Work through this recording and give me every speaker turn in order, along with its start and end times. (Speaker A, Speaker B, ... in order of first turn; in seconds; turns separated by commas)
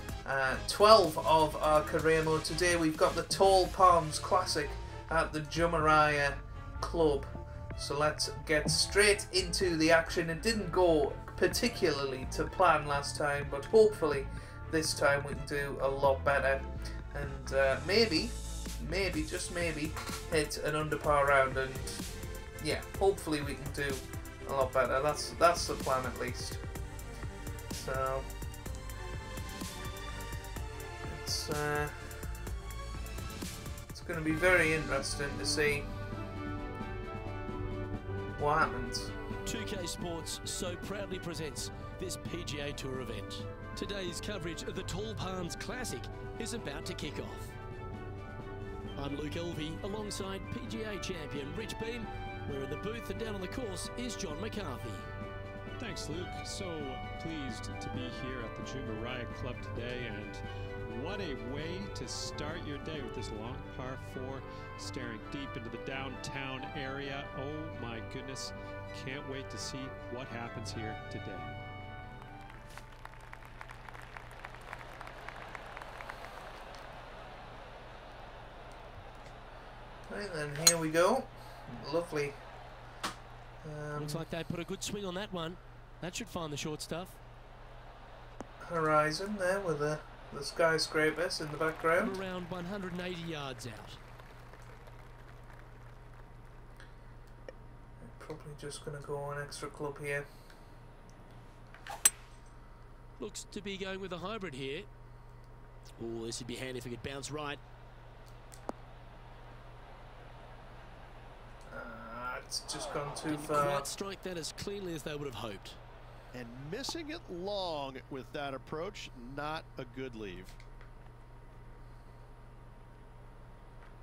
Speaker A: 0.2-22.1, Speaker A: 22.6-26.6, Speaker A: 27.7-28.3, Speaker A: 31.1-32.4, Speaker A: 33.9-35.9, Speaker A: 38.4-39.1, Speaker B: 39.4-47.5, Speaker B: 49.0-55.1, Speaker C: 55.8-71.5, Speaker A: 80.1-82.4, Speaker A: 83.6-84.2, Speaker B: 83.9-87.2, Speaker A: 88.6-92.2, Speaker B: 92.0-94.0, Speaker A: 98.0-100.2, Speaker B: 103.2-104.9, Speaker B: 106.0-107.6, Speaker A: 111.7-113.9, Speaker B: 113.3-115.8, Speaker D: 116.3-120.6